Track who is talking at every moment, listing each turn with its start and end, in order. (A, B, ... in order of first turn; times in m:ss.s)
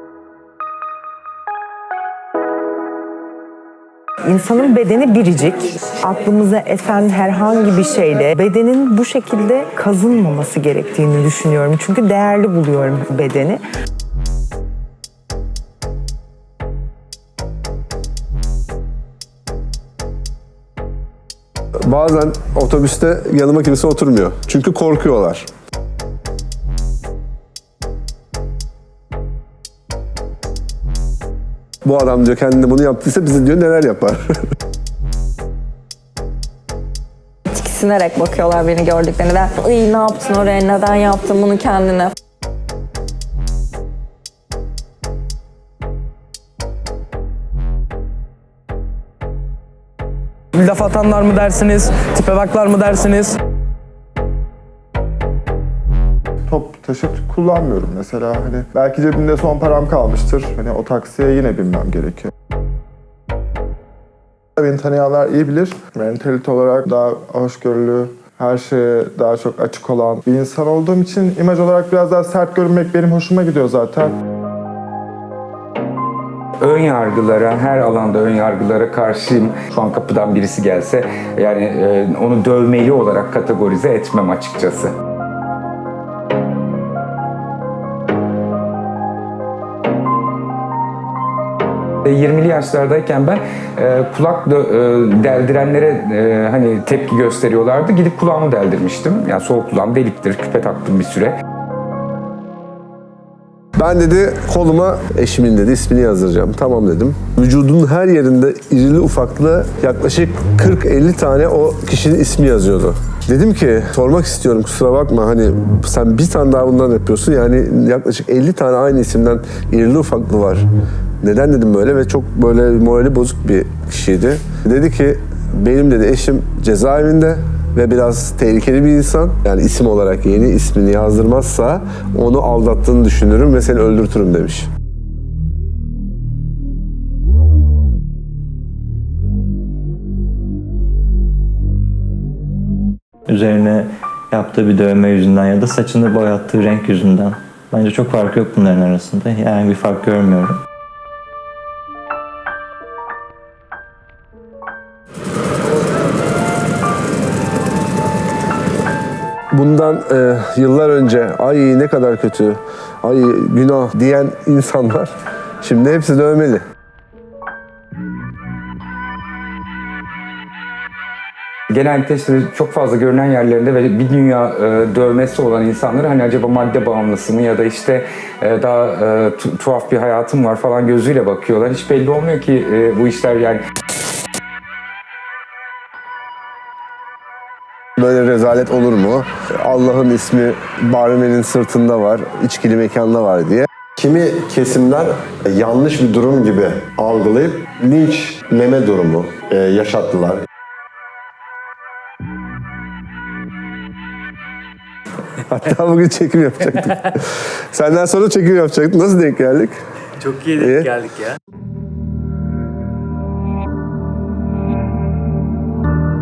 0:04.3-0:13.6 A
0:21.9-0:25.5 B
0:31.8-0:34.2 B
0:37.5-0:42.1 C
0:50.5-0:53.4 D
0:56.5-1:02.3 E
1:04.6-1:14.1 E
1:16.6-1:24.9 F
1:32.0-1:41.4 F
1:43.8-2:00.7 B
2:01.2-2:14.7 B
2:23.3-2:30.6 G
2:39.5-2:45.1 B
2:45.6-2:46.6 B
2:51.7-3:03.6 F
3:08.0-3:13.7 B
3:14.0-3:20.4 H
3:25.5-3:29.8 B
3:30.3-3:31.1 B